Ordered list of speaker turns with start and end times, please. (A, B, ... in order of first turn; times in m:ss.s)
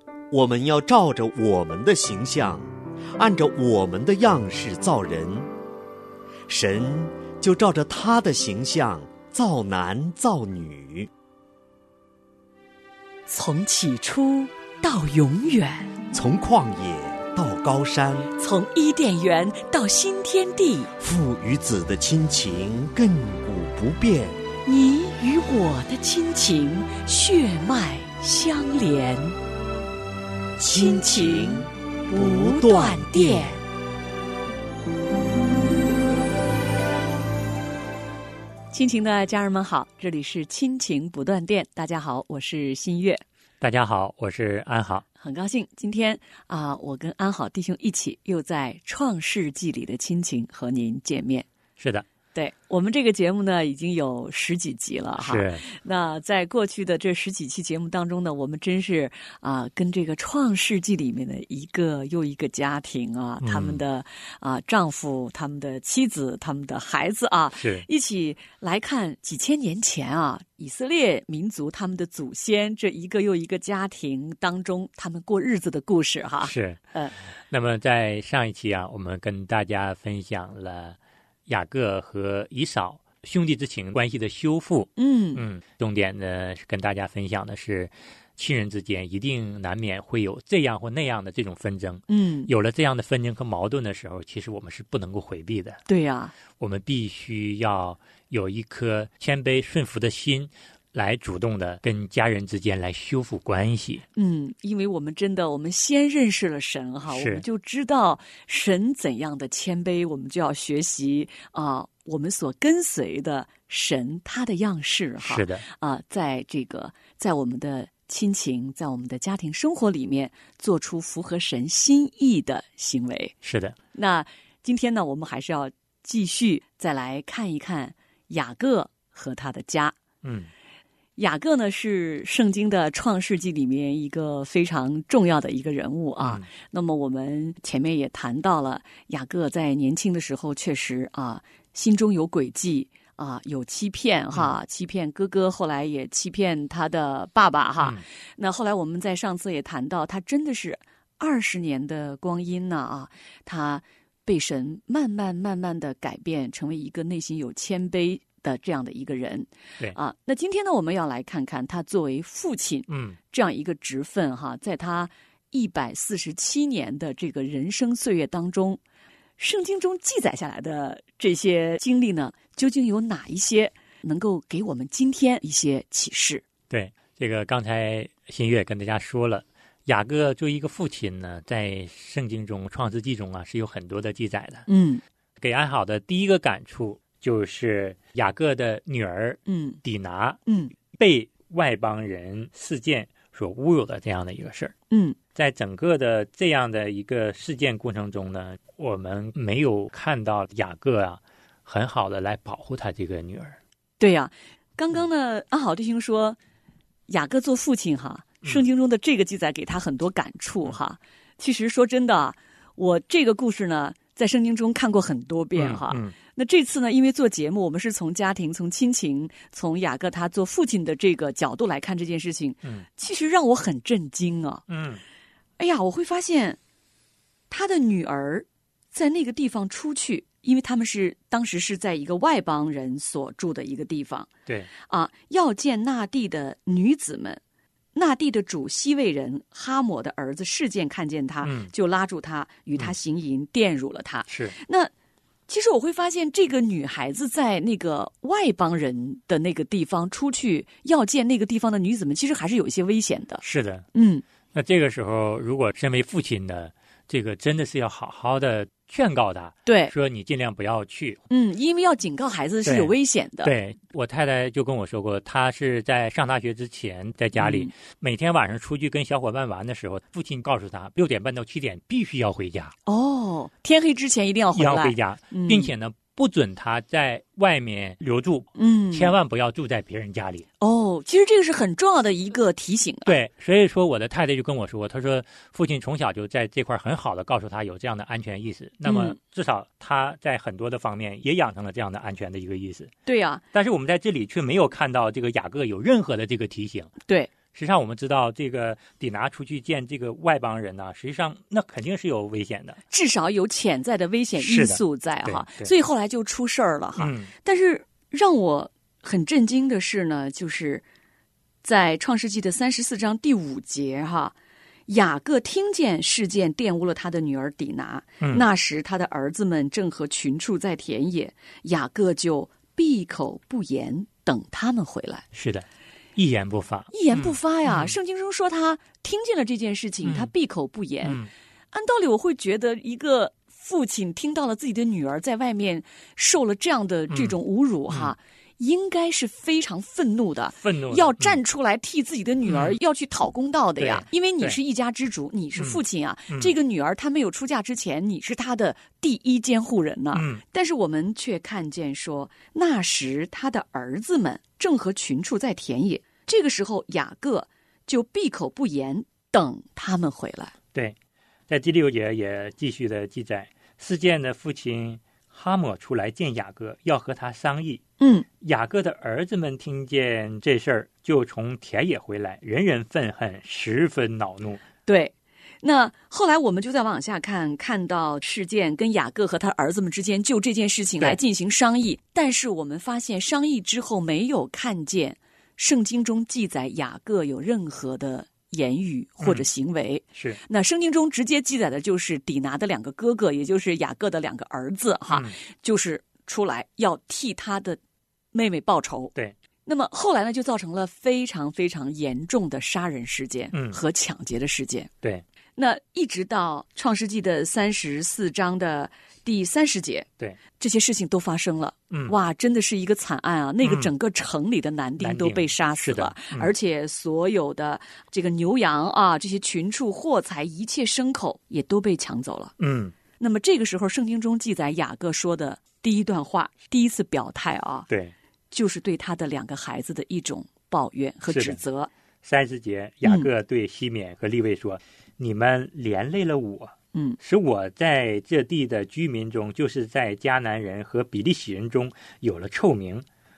0:00.3-0:05.5 A
0:06.5-0:11.1 A
0:13.3-0:15.9 B
0:16.1-0:18.3 A
0:18.4-0:20.9 B
0:21.0-0:24.4 A
0:24.6-0:29.4 B
0:30.6-0:33.6 A
0:30.7-0:33.6 B
0:38.7-0:43.2 B
0:43.6-0:45.0 C
0:45.2-0:51.4 B
0:51.8-0:52.0 C
0:52.3-1:17.1 B
0:55.2-0:55.6 C
1:03.4-1:03.8 C
1:07.6-1:07.8 C
1:16.4-1:16.8 C
1:17.5-1:35.8 C
1:25.0-1:25.4 B
1:32.1-1:32.5 B
1:35.9-1:36.3 B
1:36.5-1:44.0 C
1:44.2-2:03.3 B
1:47.1-1:47.4 C
1:55.2-1:55.6 C
2:03.4-2:03.8 C
2:03.9-2:10.0 B
2:10.2-2:10.5 C
2:11.2-2:48.8 B
2:16.2-2:16.4 C
2:42.9-2:43.2 C
2:49.4-2:56.4 B
2:56.7-3:04.6 C
3:04.7-3:05.0 B
3:05.4-3:14.7 C
3:09.5-3:09.8 B
3:10.5-3:10.7 B
3:14.9-3:15.2 B
3:15.3-3:23.6 C
3:24.0-3:26.4 B
3:27.1-3:44.6 B
3:35.5-3:36.1 C
3:44.7-3:45.0 C
3:45.6-3:46.6 B
3:47.5-3:57.4 B
3:57.9-4:04.9 B
4:01.4-4:01.7 C
4:04.3-4:04.5 C
4:05.5-4:13.4 B
4:13.4-4:13.9 C
4:13.9-4:14.2 B
4:14.5-4:21.2 C
4:19.6-4:19.9 B
4:21.3-4:23.5 B
4:22.6-4:22.9 C
4:23.4-4:32.7 C
4:27.4-4:27.7 B
4:32.8-4:35.7 B
4:34.5-4:40.5 C
4:38.6-4:39.2 B
4:40.6-4:43.1 B
4:43.1-4:52.9 C
4:48.8-4:49.2 B
4:53.1-4:53.4 B
4:53.5-4:56.9 C
4:57.5-5:02.8 C
5:02.9-5:10.8 B
5:04.4-5:05.7 C
5:07.0-5:07.3 C
5:11.6-5:14.3 B
5:14.9-5:25.2 B
5:25.3-5:27.9 C
5:26.9-5:31.2 B
5:30.0-5:30.3 C
5:31.0-5:31.3 C
5:31.7-6:00.5 B
5:37.1-5:37.4 C
5:37.9-5:38.1 C
5:40.6-5:41.4 C
5:42.4-5:42.8 C
5:43.8-5:44.6 C
5:50.1-5:50.4 C
6:01.5-6:07.8 C
6:08.0-6:08.2 B
6:08.4-6:14.6 C
6:14.8-6:37.8 B
6:35.1-6:35.3 C
6:38.3-6:39.1 B
6:39.6-6:44.9 B
6:43.5-6:43.8 C
6:45.6-6:50.1 B
6:50.6-7:02.5 B
6:53.6-6:53.9 C
6:55.0-6:56.5 C
7:02.6-7:02.9 C
7:03.2-7:07.9 B
7:07.9-7:08.1 C
7:08.5-7:11.9 B
7:11.3-7:11.6 C
7:12.2-7:23.0 C
7:13.0-7:13.3 B